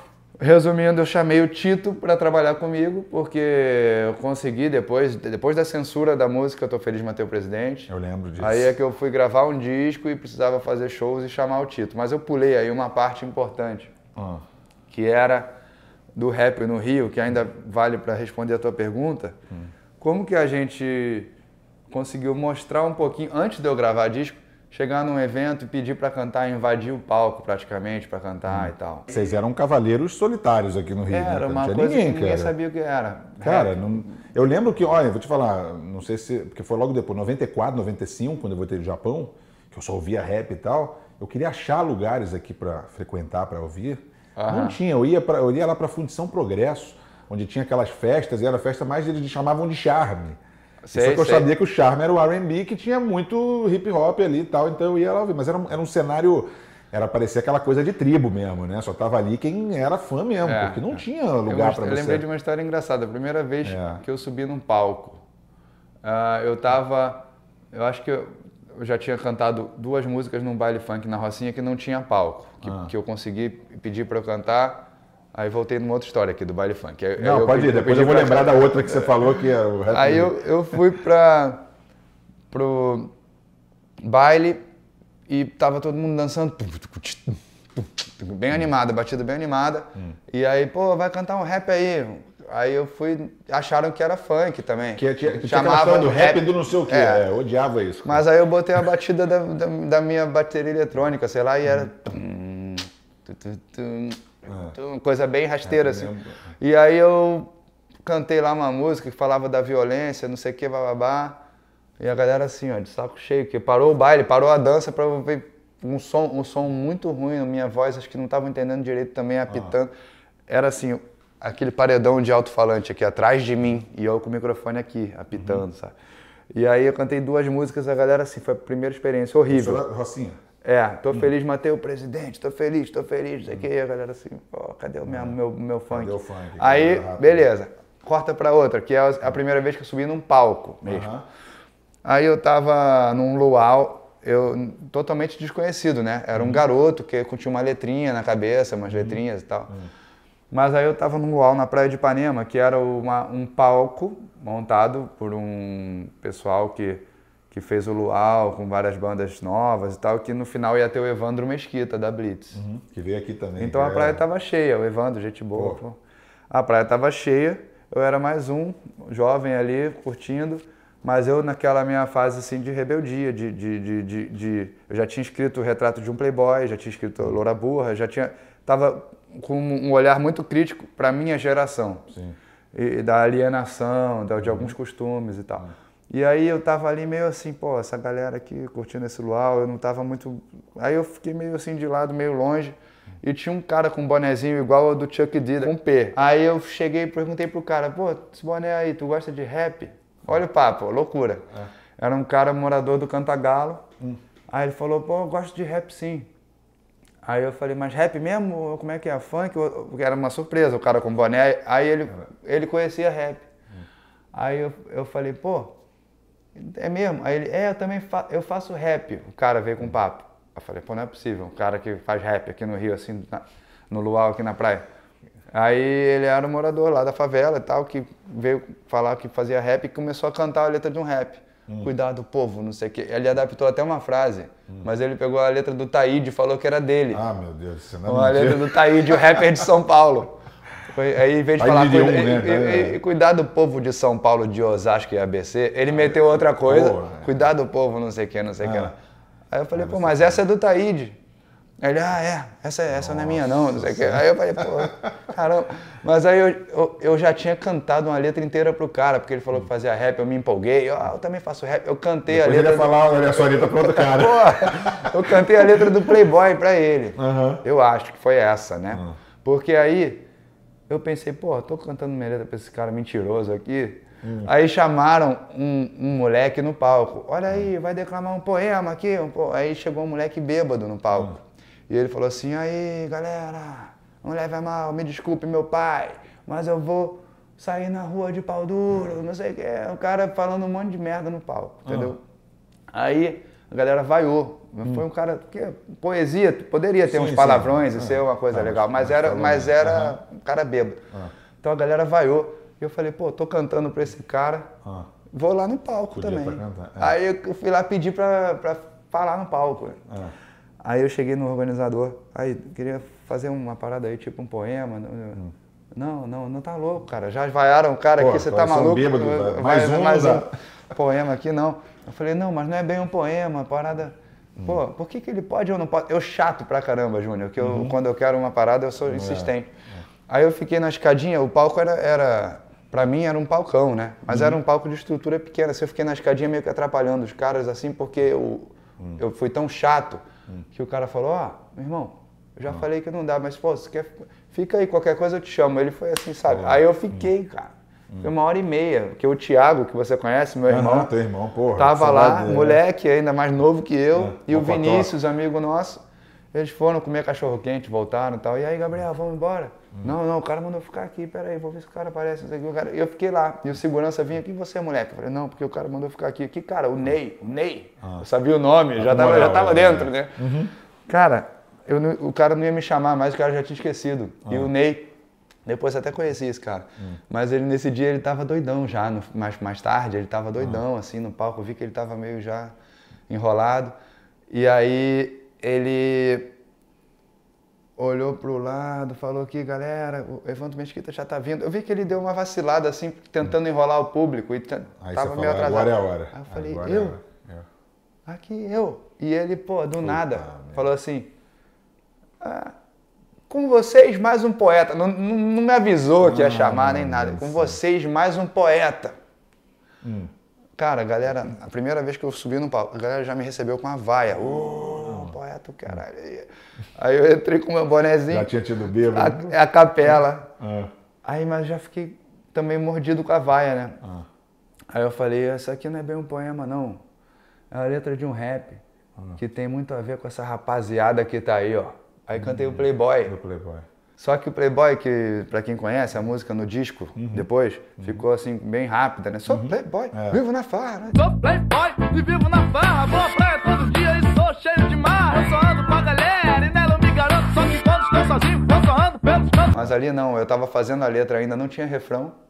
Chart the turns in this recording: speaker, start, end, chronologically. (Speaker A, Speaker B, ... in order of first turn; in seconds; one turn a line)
Speaker A: 0.4-13.9
Speaker B: 7.9-8.7
Speaker B: 14.2-14.4
Speaker A: 14.9-15.5
Speaker A: 16.1-19.4
Speaker A: 20.0-21.3
Speaker A: 21.9-29.1
Speaker B: 28.5-32.5
Speaker A: 31.1-34.1
Speaker B: 33.4-50.4
Speaker A: 44.4-44.8
Speaker A: 50.8-51.5
Speaker B: 50.9-62.2
Speaker A: 60.5-65.2
Speaker B: 63.6-64.0
Speaker A: 66.0-79.2
Speaker B: 72.6-72.9
Speaker B: 77.2-80.3
Speaker A: 79.9-81.6
Speaker A: 82.5-83.1
Speaker A: 84.0-84.6
Speaker A: 85.3-97.3
Speaker B: 95.0-98.2
Speaker A: 98.0-107.5
Speaker B: 104.5-104.8
Speaker B: 105.7-106.3
Speaker A: 108.0-111.4
Speaker A: 112.0-119.9
Speaker A: 120.5-125.9
Speaker B: 125.3-125.6
Speaker A: 126.5-129.8
Speaker B: 129.5-130.4
Speaker A: 130.6-141.1
Speaker B: 135.1-135.3
Speaker B: 135.9-137.4
Speaker B: 140.8-141.3
Speaker A: 142.0-149.7
Speaker B: 146.4-146.6
Speaker A: 150.5-162.6
Speaker B: 162.6-164.2
Speaker A: 163.6-166.0
Speaker B: 165.6-165.8
Speaker A: 166.5-182.1
Speaker B: 182.1-182.4
Speaker A: 182.7-201.5
Speaker B: 184.4-184.7
Speaker A: 202.0-203.8
Speaker A: 204.5-206.3
Speaker A: 207.2-213.4
Speaker A: 214.3-215.8
Speaker A: 216.6-224.9
Speaker A: 225.5-237.2
Speaker B: 237.1-239.2
Speaker A: 238.1-249.0
Speaker B: 241.6-243.0
Speaker B: 246.6-247.3
Speaker B: 248.6-248.9
Speaker A: 249.5-251.2
Speaker B: 249.8-250.4
Speaker A: 251.8-270.2
Speaker B: 252.9-254.3
Speaker B: 262.3-265.1
Speaker B: 267.2-267.6
Speaker A: 270.9-292.2
Speaker B: 274.2-274.5
Speaker B: 291.9-292.1
Speaker A: 292.9-301.0
Speaker B: 297.1-300.2
Speaker A: 301.6-304.7
Speaker A: 305.3-310.0
Speaker B: 306.1-307.1
Speaker B: 310.1-310.3
Speaker A: 310.8-315.4
Speaker A: 315.9-329.7
Speaker B: 318.2-320.5
Speaker B: 327.6-327.9
Speaker B: 329.1-330.0
Speaker A: 330.3-351.1
Speaker B: 334.3-334.6
Speaker B: 346.5-347.2
Speaker B: 350.7-352.8
Speaker A: 351.8-356.0
Speaker B: 354.1-355.1
Speaker A: 356.5-370.5
Speaker B: 369.0-370.7
Speaker A: 371.1-375.1
Speaker A: 375.7-382.7
Speaker A: 383.3-383.9
Speaker A: 384.5-386.5
Speaker A: 388.0-397.2
Speaker B: 395.0-397.7
Speaker A: 398.3-401.3
Speaker B: 400.0-400.8
Speaker A: 402.4-402.7
Speaker A: 403.5-409.2
Speaker B: 406.2-407.8
Speaker B: 410.0-410.3
Speaker A: 410.8-418.5
Speaker B: 414.9-415.3
Speaker B: 418.3-419.6
Speaker A: 419.1-420.5
Speaker B: 420.6-420.9
Speaker A: 421.2-424.0
Speaker A: 424.9-427.0
Speaker A: 427.7-428.8
Speaker A: 429.4-433.4
Speaker B: 432.4-433.9
Speaker A: 434.2-441.2
Speaker B: 437.2-437.5
Speaker B: 439.5-440.4
Speaker C: 441.1-449.7
Speaker A: 449.7-452.4